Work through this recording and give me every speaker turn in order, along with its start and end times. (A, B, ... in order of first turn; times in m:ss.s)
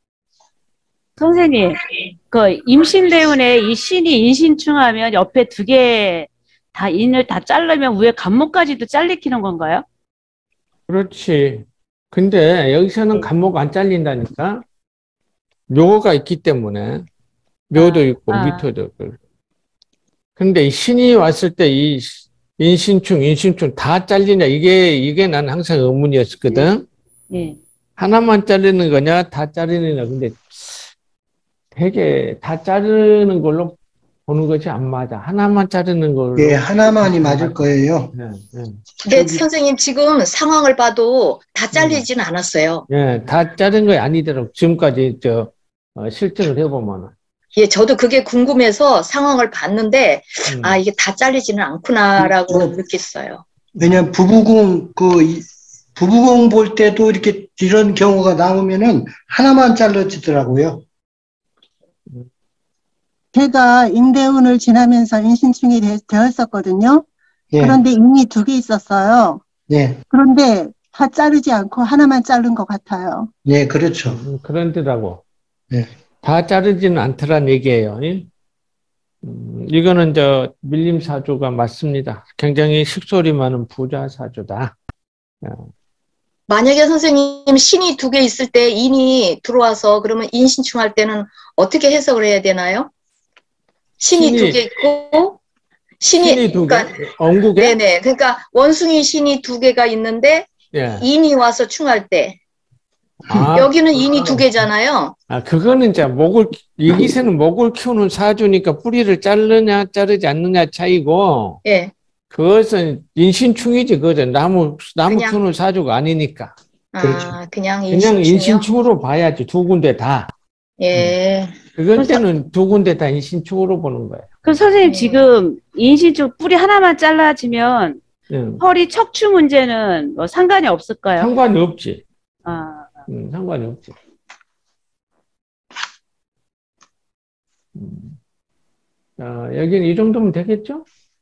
0:01.2-0:09.8 A
0:10.9-0:14.6 B
0:15.7-0:17.0 B
0:17.7-0:19.2 B
0:17.7-0:18.7 A
0:20.4-0:26.8 B
0:27.3-0:27.6 A
0:28.0-0:30.8 B
0:31.7-0:38.8 B
0:36.4-0:38.1 C
0:39.1-0:42.8 D
0:39.1-0:39.4 C
0:41.7-0:42.0 B
0:42.9-0:47.1 B
0:47.6-0:53.4 D
0:50.4-0:50.8 B
0:52.2-0:52.7 C
0:53.8-0:54.0 B
0:53.8-1:00.8 C
1:03.3-1:07.0 E
1:07.5-1:07.8 C
1:07.6-1:09.4 E
1:09.7-1:10.0 C
1:10.1-1:13.3 E
1:13.4-1:14.2 C
1:14.0-1:15.2 B
1:16.2-1:18.3 B
1:19.2-1:24.7 B
1:25.4-1:25.7 B
1:26.5-1:32.9 D
1:34.0-1:35.4 D
1:34.1-1:34.6 B
1:36.0-1:36.9 D
1:36.2-1:37.8 B
1:37.6-1:40.5 D
1:40.7-1:41.0 B
1:41.0-1:42.4 D
1:43.3-1:44.4 B
1:43.5-1:45.1 D
1:45.3-1:51.6 B
1:51.6-1:51.9 D
1:52.3-1:57.3 B
1:55.1-1:55.4 D
1:56.9-1:58.6 D
1:57.9-2:00.3 B
2:00.8-2:01.5 D
2:01.8-2:04.3 B
2:02.0-2:02.2 A
2:04.4-2:08.0 A
2:04.8-2:05.3 D
2:08.3-2:08.6 B
2:08.6-2:11.4 A
2:11.2-2:12.0 B
2:12.4-2:12.9 A
2:13.1-2:13.9 B
2:17.7-2:18.2 B
2:19.2-2:20.8 B